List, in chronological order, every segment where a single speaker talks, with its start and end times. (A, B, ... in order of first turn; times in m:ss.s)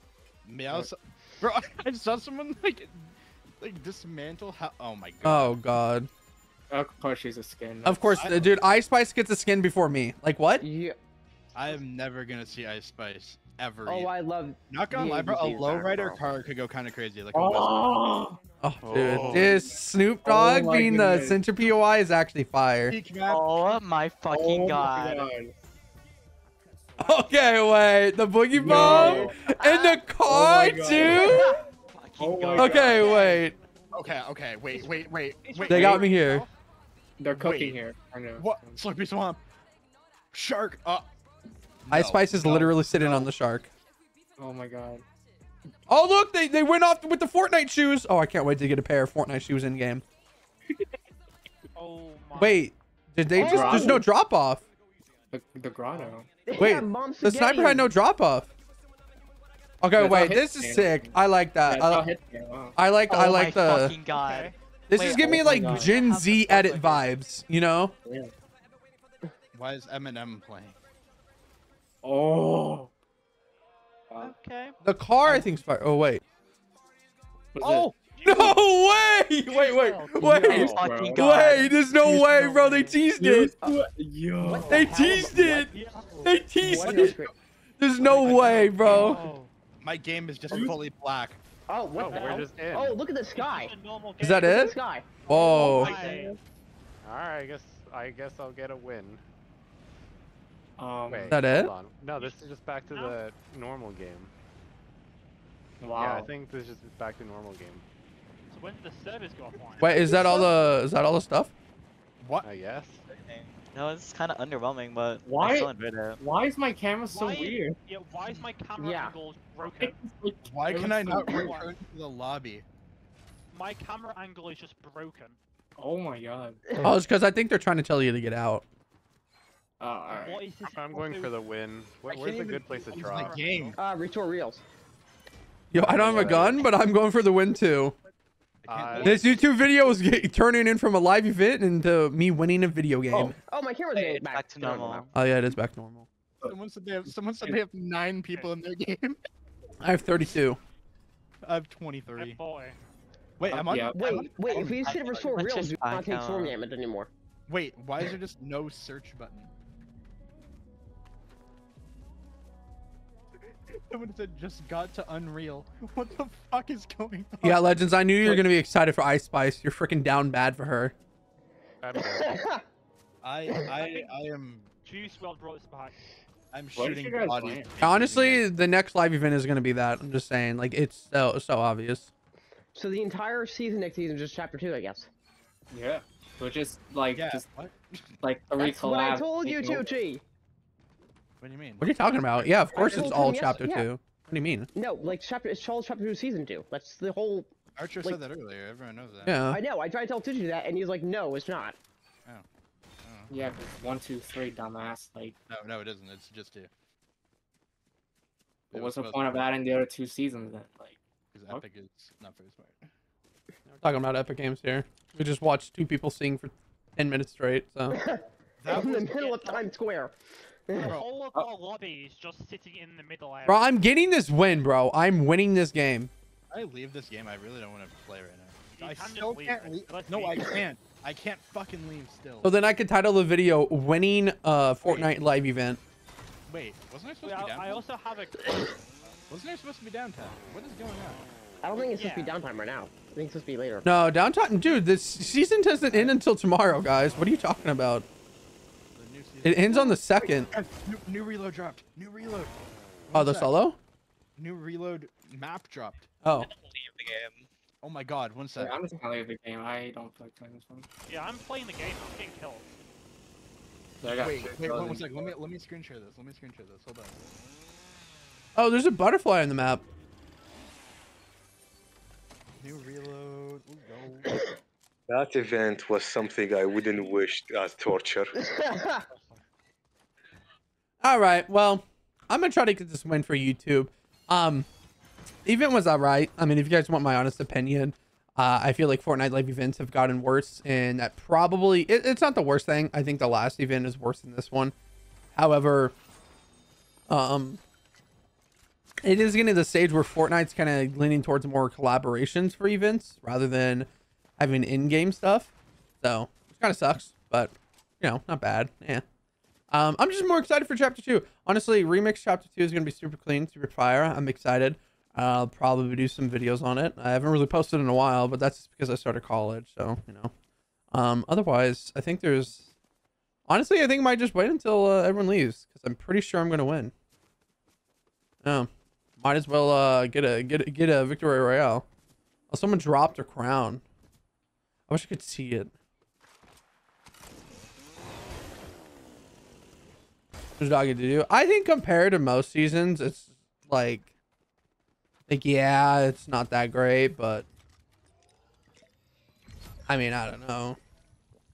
0:00.4-0:05.5 A
0:05.2-0:06.1 B
0:06.7-0:08.3 C
0:07.8-0:10.6 B
0:08.2-0:08.5 A
0:10.6-0:11.0 D
0:11.5-0:14.1 A
0:13.8-0:16.2 D
0:14.7-0:17.8 A
0:17.3-0:21.4 C
0:18.6-0:23.0 B
0:18.9-0:19.6 A
0:22.9-0:23.5 A
0:23.3-0:25.3 E
0:24.3-0:25.5 C
0:27.0-0:31.6 B
0:28.5-0:29.4 C
0:28.7-0:29.3 A
0:29.5-0:30.0 D
0:30.2-0:31.5 C
0:31.0-0:31.6 D
0:31.9-0:33.1 E
0:32.2-0:33.2 C
0:32.6-0:33.5 B
0:33.0-0:33.4 D
0:33.9-0:36.0 A
0:34.7-0:36.5 F
0:35.7-0:36.4 B
0:35.7-0:36.0 C
0:37.2-0:38.8 C
0:37.3-0:37.8 A
0:38.4-0:39.4 A
0:40.3-0:41.1 A
0:41.8-0:43.3 A
0:41.9-0:43.7 B
0:44.4-0:45.0 C
0:45.9-0:50.0 B
0:51.7-0:52.6 F
0:52.4-0:54.6 B
0:53.4-0:54.0 D
0:53.4-0:54.0 C
0:55.3-0:56.3 C
0:56.5-0:57.9 D
0:56.6-0:58.5 B
0:59.8-1:02.0 B
1:00.0-1:02.8 C
1:02.8-1:03.9 B
1:03.1-1:04.5 E
1:04.1-1:04.5 F
1:04.9-1:07.9 B
1:04.9-1:06.0 C
1:05.6-1:07.1 E
1:08.0-1:08.3 C
1:09.5-1:10.8 A
1:12.0-1:12.9 C
1:14.1-1:14.3 C
1:14.2-1:14.8 F
1:14.8-1:16.2 B
1:17.5-1:17.9 C
1:17.6-1:18.0 A
1:18.1-1:18.6 F
1:18.2-1:23.5 B
1:19.4-1:20.5 F
1:20.2-1:21.6 C
1:20.4-1:22.2 E
1:22.1-1:25.0 C
1:24.4-1:25.6 D
1:24.6-1:26.4 F
1:24.7-1:27.2 B
1:26.6-1:27.3 D
1:26.8-1:27.3 A
1:27.8-1:29.2 B
1:28.0-1:29.5 F
1:28.2-1:29.2 A
1:29.8-1:31.4 A
1:31.7-1:33.7 D
1:31.9-1:33.0 G
1:32.0-1:32.5 F
1:33.4-1:34.7 F
1:34.2-1:34.7 B
1:34.4-1:36.1 D
1:35.2-1:36.3 F
1:35.3-1:35.9 B
1:35.4-1:36.4 C
1:37.0-1:39.2 G
1:40.8-1:41.4 C
1:41.1-1:44.3 G
1:41.3-1:41.7 B
1:42.2-1:43.2 F
1:45.8-1:46.3 C
1:45.9-1:47.8 G
1:48.5-1:50.1 F
1:49.8-1:51.5 B
1:50.0-1:50.5 D
1:52.2-1:52.5 A
1:52.4-1:53.0 G
1:53.1-1:56.2 E
1:55.2-1:57.8 C
1:57.1-2:00.0 F
1:58.8-1:59.2 D
1:59.6-2:01.6 C
2:00.4-2:02.6 A
2:01.2-2:01.7 F
2:03.5-2:05.4 F
2:05.8-2:06.6 C
2:06.8-2:08.6 B
2:09.8-2:10.4 C
2:10.1-2:11.3 F
2:10.6-2:13.6 G
2:12.1-2:13.8 A
2:13.0-2:13.8 F
2:13.8-2:14.6 D
2:15.7-2:17.9 B
2:15.7-2:16.7 G
2:18.6-2:19.4 A
2:18.6-2:19.2 G
2:19.0-2:23.4 B
2:23.1-2:23.4 C
2:23.5-2:25.0 D
2:23.9-2:25.1 E
2:25.1-2:26.1 B
2:26.4-2:27.6 C
2:26.4-2:29.2 A
2:29.8-2:30.6 B
2:31.4-2:32.4 A
2:32.2-2:32.8 F
2:33.4-2:34.9 A
2:33.4-2:34.2 C
2:33.9-2:37.1 D
2:34.4-2:36.5 E
2:37.5-2:39.5 A
2:43.9-2:47.8 A
2:47.4-2:50.9 B
2:51.8-2:52.3 G
2:51.9-2:52.6 D
2:53.2-2:54.7 A
2:53.8-2:54.1 F
2:54.8-2:56.0 F
2:56.5-2:58.5 A
2:56.7-2:57.8 C
2:57.8-3:02.1 B
3:02.7-3:05.1 D
3:05.7-3:07.5 C
3:07.1-3:08.1 A
3:08.2-3:09.9 C
3:08.6-3:10.2 D
3:11.4-3:13.6 A
3:11.8-3:14.7 B
3:12.7-3:13.9 D
3:14.7-3:18.2 D
3:17.8-3:19.4 A
3:19.2-3:19.6 B
3:19.5-3:21.8 D
3:23.0-3:23.3 A
3:23.3-3:25.4 C
3:25.5-3:26.7 A
3:28.7-3:29.4 A
3:28.7-3:31.6 C
3:31.3-3:32.9 A
3:33.8-3:38.0 B
3:37.9-3:40.1 D
3:38.6-3:39.1 A
3:38.8-3:39.7 F
3:40.7-3:40.9 D
3:40.8-3:41.1 A
3:40.8-3:43.7 F
3:43.4-3:46.1 B
3:46.5-3:52.5 A
3:48.8-3:50.5 F
3:52.4-3:55.8 B
3:54.8-3:55.1 A
3:56.5-3:57.8 A
3:57.2-3:58.7 F
3:59.3-4:01.2 A
4:01.6-4:03.9 D
4:01.9-4:02.3 F
4:03.8-4:08.0 B
4:08.9-4:12.5 A
4:09.4-4:10.5 B
4:13.1-4:13.5 A
4:13.1-4:13.8 B
4:14.4-4:16.1 A
4:16.2-4:16.5 B
4:16.3-4:17.5 E
4:17.8-4:18.8 A
4:18.6-4:20.9 C
4:21.1-4:22.8 F
4:24.0-4:25.3 C
4:24.0-4:27.2 A
4:28.5-4:29.8 B
4:32.6-4:34.3 A
4:35.1-4:38.4 H
4:38.4-4:39.0 D
4:41.0-4:44.7 B
4:45.4-4:54.7 B
4:55.3-4:55.9 B
4:57.1-4:57.6 B
4:59.0-5:03.9 B
5:04.4-5:09.0 B
5:09.7-5:20.3 B
5:20.9-5:22.7 B
5:23.5-5:26.9 B
5:28.4-5:31.8 B
5:32.5-5:33.8 B
5:34.9-5:35.7 B
5:40.6-5:44.1 B
5:45.3-5:47.4 B
5:49.9-5:50.8 B